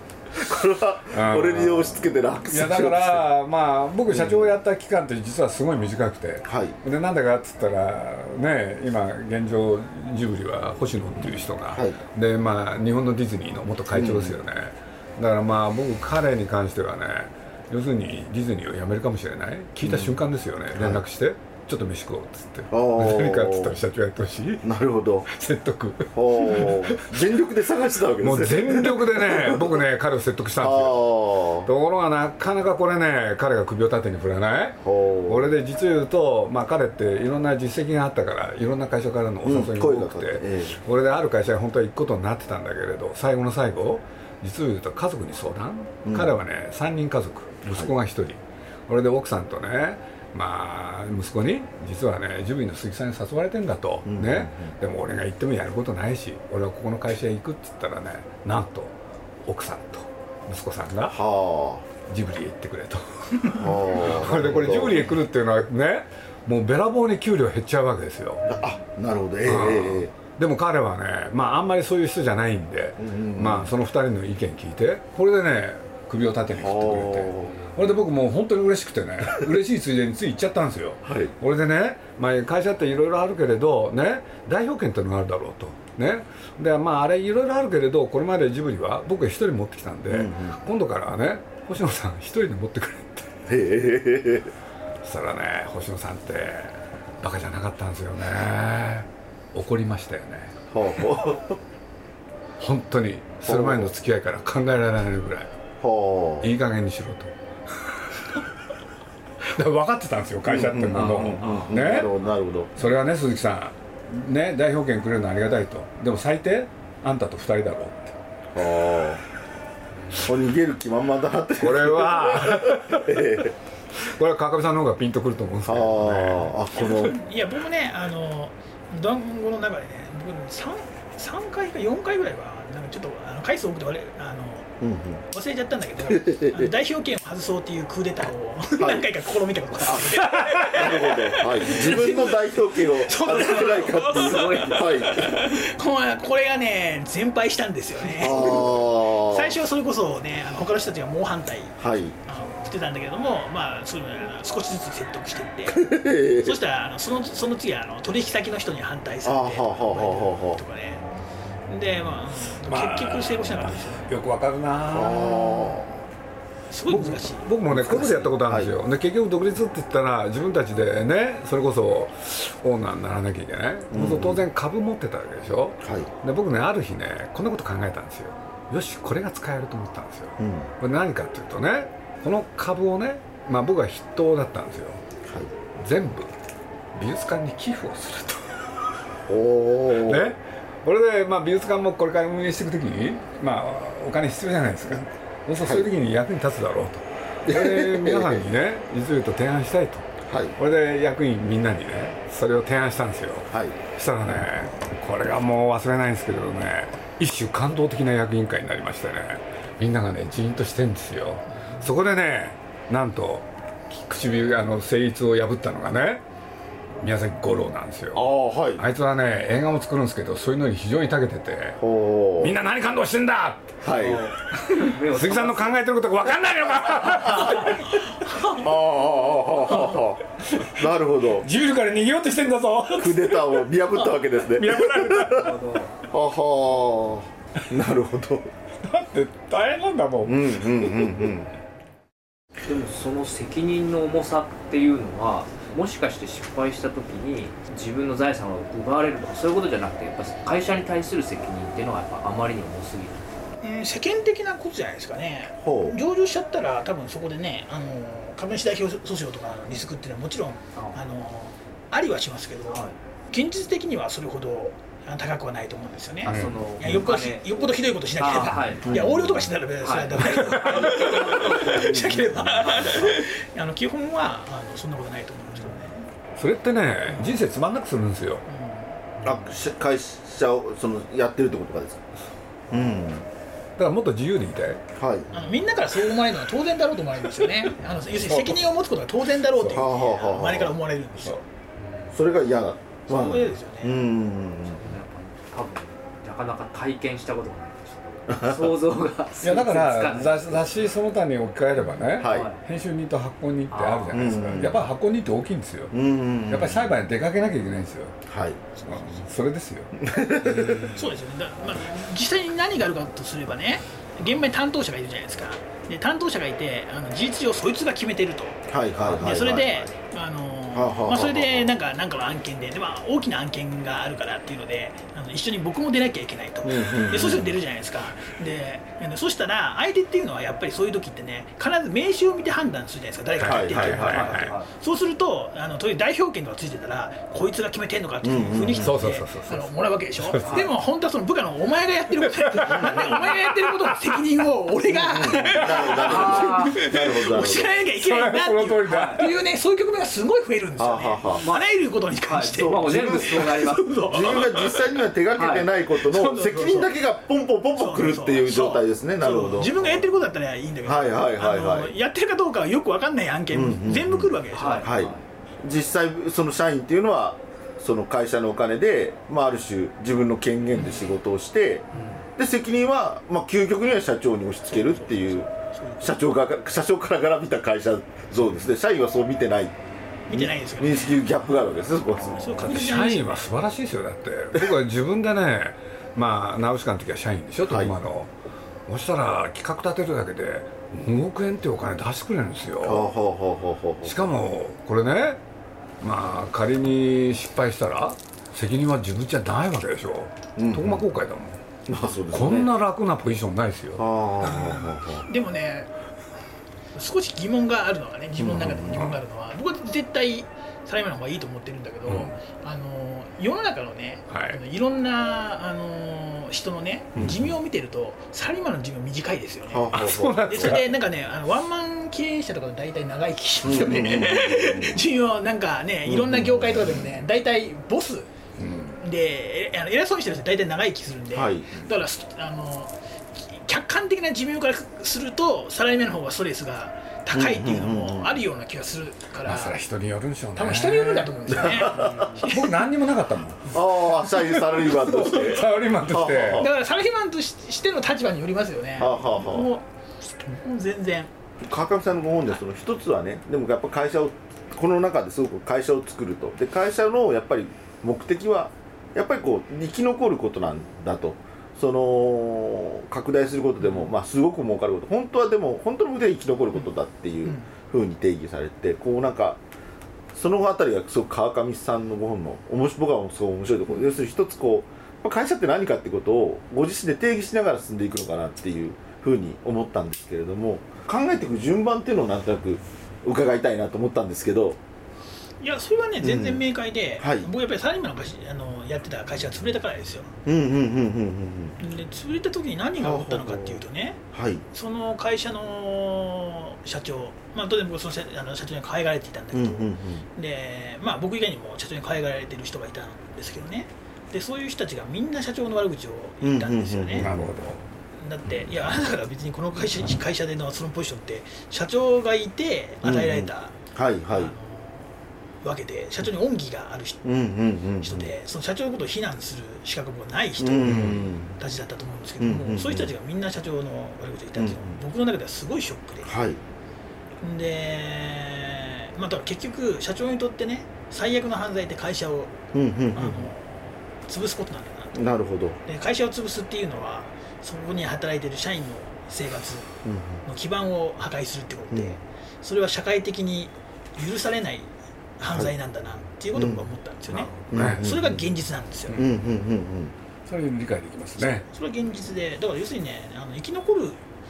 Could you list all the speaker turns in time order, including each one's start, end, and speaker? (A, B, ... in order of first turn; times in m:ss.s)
0:00.3-0:03.3 A
0:01.1-0:02.0 B
0:02.5-0:24.6 B
0:04.1-0:04.5 A
0:06.4-0:06.8 A
0:11.7-0:12.0 A
0:13.9-0:14.4 A
0:19.8-0:20.2 A
0:20.7-0:21.0 A
0:22.7-0:23.8 A
0:24.6-0:25.3 A
0:25.3-0:27.3 B
0:26.1-0:29.8 A
0:28.2-0:31.1 B
0:30.6-0:31.7 A
0:31.6-1:01.2 B
0:34.8-0:35.5 A
0:39.4-0:40.8 A
0:46.0-0:46.3 A
0:54.0-0:54.7 A
1:01.1-1:01.9 A
1:02.0-1:08.4 B
1:03.5-1:05.1 A
1:08.4-1:10.1 A
1:09.4-1:33.4 B
1:13.0-1:13.7 A
1:16.6-1:17.6 A
1:21.0-1:21.3 A
1:30.1-1:30.6 A
1:33.5-1:34.5 A
1:35.0-1:40.5 B
1:40.7-1:41.6 A
1:42.6-1:45.5 B
1:43.4-1:43.9 A
1:45.8-1:46.5 A
1:46.4-1:48.4 B
1:49.4-1:52.1 B
1:50.4-1:52.7 A
1:51.1-1:52.4 C
1:52.8-1:58.1 B
1:58.5-1:59.2 A
2:00.2-2:03.5 A
2:01.6-2:03.3 B
2:04.1-2:06.5 B
2:05.6-2:07.2 A
2:06.8-2:14.7 D
2:14.8-2:15.2 A
2:15.3-2:35.8 D
2:16.0-2:16.7 A
2:18.8-2:19.0 A
2:20.6-2:25.3 A
2:23.3-2:24.9 C
2:28.1-2:29.5 A
2:31.8-2:32.2 A
2:35.7-2:36.6 A
2:36.4-2:41.0 D
2:39.2-2:40.6 A
2:41.7-2:44.1 D
2:42.6-2:45.8 B
2:44.9-2:45.9 A
2:46.7-2:47.4 D
2:46.9-3:05.0 B
2:47.7-2:48.7 A
2:53.9-2:54.4 A
2:55.8-2:56.1 A
3:00.4-3:00.7 A
3:05.2-3:05.5 A
3:05.8-3:06.3 B
3:06.9-3:08.8 B
3:09.3-3:10.3 A
3:10.0-3:36.2 B
3:17.5-3:18.4 A
3:20.2-3:20.5 A
3:23.5-3:23.8 A
3:37.0-3:38.2 B
3:38.1-3:38.8 A
3:38.8-3:41.8 B
3:41.8-3:42.5 A
3:42.4-3:43.8 B
3:43.8-3:44.2 A
3:43.9-3:45.8 C
3:45.0-3:48.0 B
3:48.5-3:51.4 A
3:50.4-3:50.8 B
3:51.4-3:53.4 B
3:53.0-3:55.5 A
3:54.6-3:55.5 B
3:55.3-3:55.9 C
3:56.1-3:58.5 A
3:58.8-4:01.3 B
4:00.2-4:01.5 A
4:02.6-4:13.2 C
4:13.6-4:36.0 D
4:15.6-4:16.0 A
4:20.7-4:21.0 C
4:22.7-4:23.0 C
4:26.2-4:27.6 C
4:26.2-4:27.0 B
4:28.2-4:33.1 C
4:28.8-4:29.5 A
4:30.4-4:30.7 B
4:36.4-4:38.4 B
4:38.5-4:38.9 D
4:39.2-4:42.0 A
4:42.7-4:43.3 A
4:43.8-4:44.8 B
4:45.0-4:45.3 A
4:45.3-4:45.6 C
4:45.3-4:51.4 D
4:48.3-4:48.6 B
4:49.6-4:50.7 A
4:51.8-4:52.2 C
4:52.1-4:54.8 A
4:53.1-4:54.0 D
4:54.7-5:00.9 C
4:58.3-4:58.7 A
4:59.4-5:05.9 B
5:02.1-5:02.6 C
5:02.2-5:02.5 A
5:03.7-5:04.4 C
5:04.1-5:04.9 A
5:05.9-5:07.0 A
5:06.5-5:08.2 B
5:08.3-5:08.6 A
5:08.8-5:09.2 D
5:08.8-5:09.9 B
5:10.0-5:10.9 A
5:10.9-5:54.7 D
5:18.7-5:19.9 A
5:20.7-5:21.8 A
5:26.6-5:27.5 A
5:33.4-5:34.6 B
5:33.4-5:34.3 A
5:33.8-5:34.7 C
5:38.2-5:38.9 A
5:38.8-5:40.7 B
5:42.4-5:44.0 B
5:42.7-5:43.1 A
5:44.9-5:47.7 A
5:45.9-5:46.8 C
5:47.9-5:49.4 B
5:48.9-5:49.2 C
5:50.8-5:51.4 A
5:51.3-5:54.2 C
5:52.6-6:00.0 A
5:55.4-5:55.7 C
5:56.0-5:57.0 D
5:57.8-6:04.9 D
6:00.8-6:01.9 A
6:03.5-6:04.3 A
6:04.5-6:05.2 C
6:04.8-6:15.5 A
6:14.7-6:16.2 D
6:16.0-6:19.8 A
6:20.3-6:21.3 D
6:20.3-6:22.8 A
6:22.2-6:23.5 D
6:22.6-6:28.3 B
6:27.6-6:27.9 A
6:28.9-6:33.1 B
6:32.8-6:34.3 A
6:34.0-6:35.4 B
6:36.0-6:41.6 B
6:40.6-6:41.0 A
6:41.9-6:42.7 A
6:42.3-6:44.8 B
6:44.0-6:45.2 A
6:45.3-6:45.9 D
6:46.9-7:08.3 D
6:48.4-6:49.1 A
6:52.1-6:52.4 B
6:54.3-6:54.6 B
6:57.2-6:57.4 A
6:59.7-7:00.8 A
6:59.9-7:01.0 B
7:03.6-7:05.0 A
7:06.0-7:07.1 A
7:08.6-7:08.9 B
7:09.0-7:19.8 D
7:11.3-7:11.8 A
7:17.3-7:18.4 A
7:19.4-7:23.8 B
7:20.6-7:22.8 D
7:21.5-7:22.3 A
7:23.7-7:26.7 A
7:23.9-7:25.6 D
7:25.2-7:26.7 B
7:26.5-7:31.3 D
7:29.0-7:29.7 A
7:31.6-7:49.6 A
7:47.4-7:47.7 D
7:50.3-8:04.8 A
8:05.6-8:10.3 D
8:06.2-8:06.6 A
8:07.2-8:07.5 A
8:10.4-8:11.8 A
8:11.8-8:14.2 D
8:13.0-8:13.8 A
8:14.3-8:14.6 A
8:14.7-8:27.3 D
8:19.5-8:20.2 A
8:26.4-8:27.6 A
8:27.2-8:27.8 B
8:28.1-8:33.8 D
8:33.0-8:34.5 A
8:34.3-8:37.2 D
8:37.2-8:38.3 A
8:38.0-8:46.3 D
8:40.6-8:41.6 A
8:40.8-8:41.2 B
8:42.4-8:43.1 A
8:44.6-8:45.0 A
8:46.2-8:46.6 A
8:47.4-8:52.6 D
8:52.7-8:53.5 A
8:53.1-8:55.3 D
8:55.1-8:55.8 A
8:55.8-9:09.2 D
9:00.0-9:00.4 A
9:01.9-9:02.2 A
9:05.5-9:05.7 A
9:06.5-9:06.9 A
9:07.3-9:08.1 B
9:07.7-9:08.4 A
9:09.1-9:10.1 A
9:10.4-9:11.7 B
9:11.4-9:14.2 D